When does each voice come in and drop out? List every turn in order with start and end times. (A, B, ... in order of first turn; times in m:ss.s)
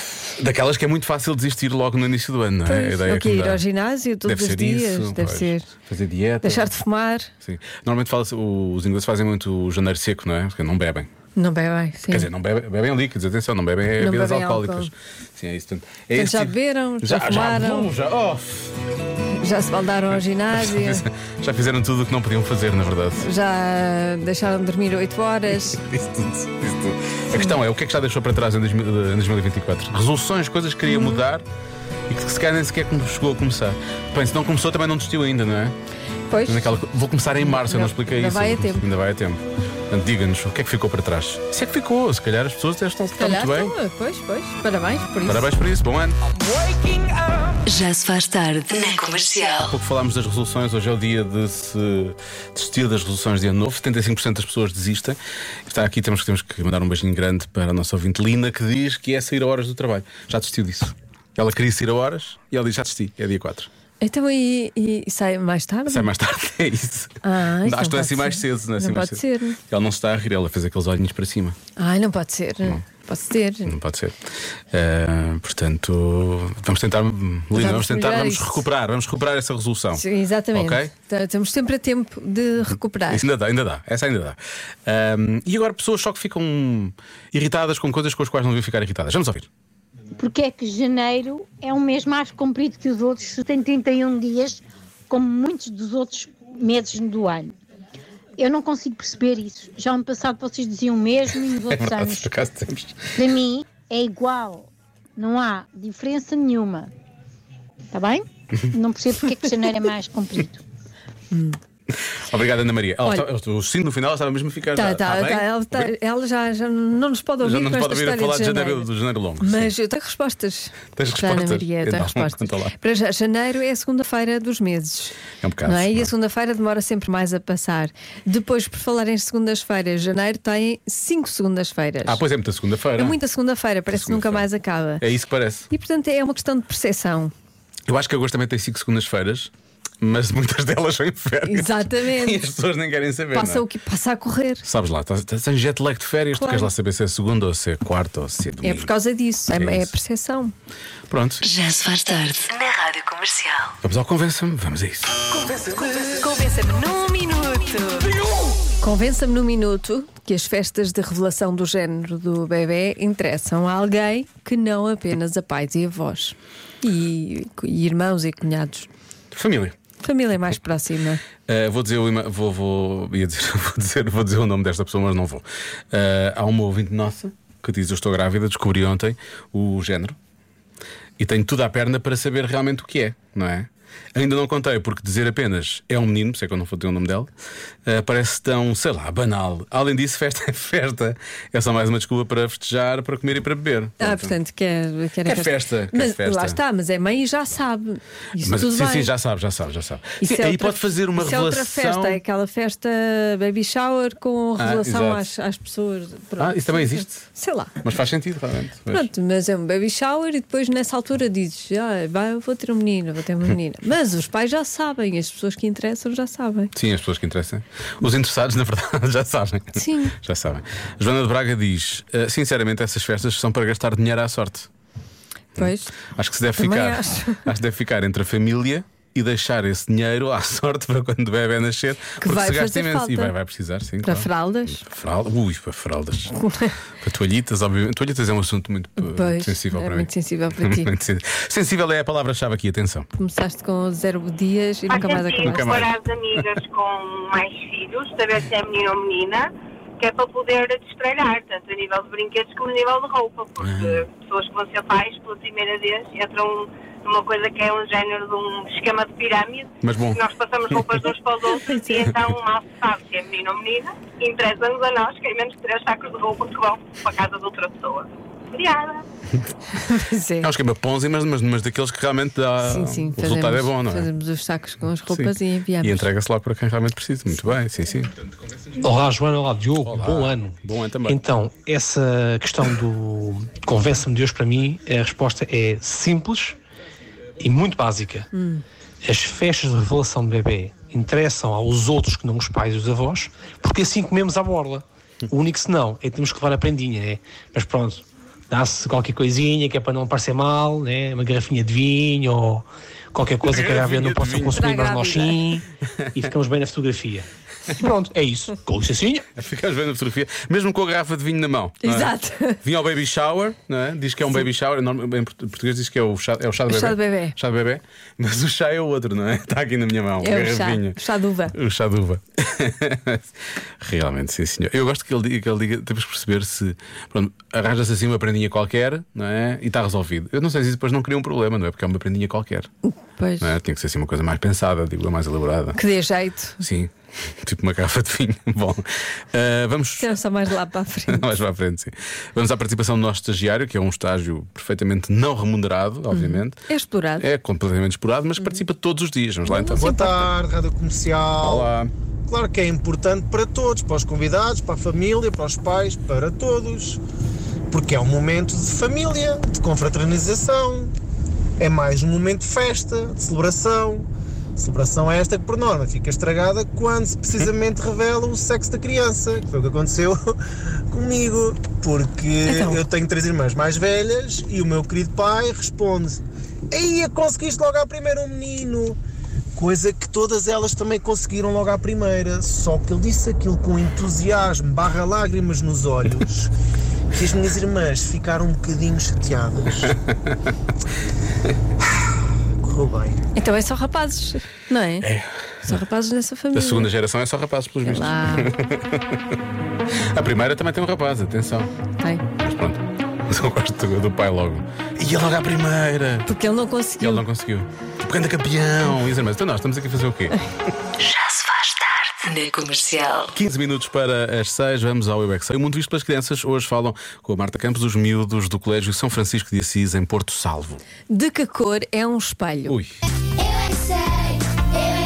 0:00.3-0:03.6 A
0:02.6-0:05.7 B
0:04.2-0:06.7 A
0:06.4-0:07.3 B
0:07.4-0:11.1 A
0:11.3-0:12.3 B
0:12.0-0:18.8 A
0:14.0-0:14.9 B
0:16.1-0:17.9 B
0:19.4-0:21.0 B
0:20.6-0:23.3 A
0:23.2-0:25.8 B
0:25.6-0:31.4 A
0:27.3-0:27.6 B
0:30.9-0:31.2 B
0:32.1-0:35.7 A
0:36.3-0:36.8 B
0:36.5-0:43.8 A
0:37.4-0:38.8 B
0:43.2-0:45.5 B
0:45.2-0:46.2 A
0:47.6-0:49.7 C
0:49.6-1:03.7 A
1:04.0-1:06.1 B
1:05.9-1:11.6 A
1:07.2-1:09.6 B
1:11.8-1:13.7 B
1:13.6-1:14.2 A
1:14.7-1:20.9 A
1:17.5-1:18.6 B
1:19.9-1:23.2 B
1:23.1-1:29.5 A
1:30.1-1:37.5 D
1:38.4-1:42.3 D
1:41.7-1:43.4 A
1:43.2-1:46.9 D
1:47.9-1:50.6 D
1:48.7-1:49.5 A
1:51.3-1:51.6 B
1:52.2-1:55.9 A
1:54.7-1:58.9 B
1:57.4-1:59.7 A
1:59.4-2:12.2 B
2:01.0-2:02.7 A
2:05.4-2:06.1 A
2:12.0-2:13.2 A
2:13.0-2:15.0 B
2:13.9-2:14.5 A
2:15.0-2:15.7 A
2:15.7-2:17.3 B
2:17.9-2:23.6 A
2:21.4-2:22.4 B
2:23.3-2:24.6 B
2:24.6-2:28.9 A
2:26.4-2:26.7 B
2:28.6-2:30.5 B
2:29.5-2:29.9 A
2:31.1-2:31.4 A
2:31.4-2:33.7 C
2:33.8-2:35.2 A
2:35.5-2:38.1 B
2:38.8-2:48.9 B
2:49.3-2:49.7 A
2:50.0-2:51.2 B
2:51.5-3:00.2 A
3:01.2-3:07.3 A
3:07.9-3:14.4 A
3:14.0-3:19.1 B
3:15.2-3:16.6 A
3:18.4-3:22.2 A
3:20.2-3:27.7 B
3:24.6-3:25.3 A
3:26.4-3:27.2 A
3:27.8-3:29.1 A
3:28.9-3:36.7 B
3:36.7-3:44.7 A
3:39.8-3:40.1 B
3:45.6-3:56.4 A
3:45.6-3:45.9 B
3:46.6-3:47.5 B
3:52.1-3:53.3 B
3:54.0-3:54.8 B
3:56.4-3:56.7 B
3:57.0-4:03.1 A
3:59.0-4:00.9 B
4:03.2-4:05.7 B
4:04.9-4:29.0 E
4:05.4-4:06.6 A
4:13.6-4:14.0 A
4:19.8-4:20.2 A
4:29.8-4:30.5 B
4:30.4-4:34.1 A
4:32.6-4:36.0 B
4:35.1-4:38.1 A
4:38.8-4:46.6 F
4:39.8-4:41.2 A
4:47.4-4:48.3 F
4:48.3-4:48.6 B
4:49.0-5:09.2 F
5:03.5-5:04.8 A
5:04.5-5:05.6 B
5:09.4-5:21.0 A
5:11.8-5:12.6 B
5:16.7-5:17.4 B
5:20.2-5:21.5 B
5:21.5-5:23.2 A
5:23.8-5:32.7 A
5:32.9-5:33.5 B
5:33.4-5:35.8 A
5:35.7-5:36.6 B
5:36.6-5:36.9 A
5:37.4-5:40.1 A
5:40.0-5:41.3 B
5:41.1-5:46.6 A
5:46.1-5:47.2 B
5:47.2-5:49.8 A
5:49.4-5:50.3 B
5:49.7-5:51.7 G
5:51.4-5:51.9 A
5:52.3-5:57.0 G
5:57.7-6:00.9 G
6:01.6-6:10.4 G
6:10.9-6:19.0 G
6:12.4-6:12.8 B
6:19.6-6:26.5 G
6:27.1-6:29.9 G
6:29.8-6:30.3 A
6:32.6-6:33.2 G
6:33.3-6:35.1 B
6:35.0-6:35.8 A
6:35.6-6:36.9 B
6:36.5-6:39.4 A
6:37.8-6:38.5 B
6:40.1-6:41.7 A
6:42.4-6:46.3 A
6:46.3-6:47.2 B
6:47.0-6:50.4 A
6:51.0-6:53.3 C
6:53.3-7:00.8 A
7:01.1-7:02.7 B
7:02.6-7:02.9 A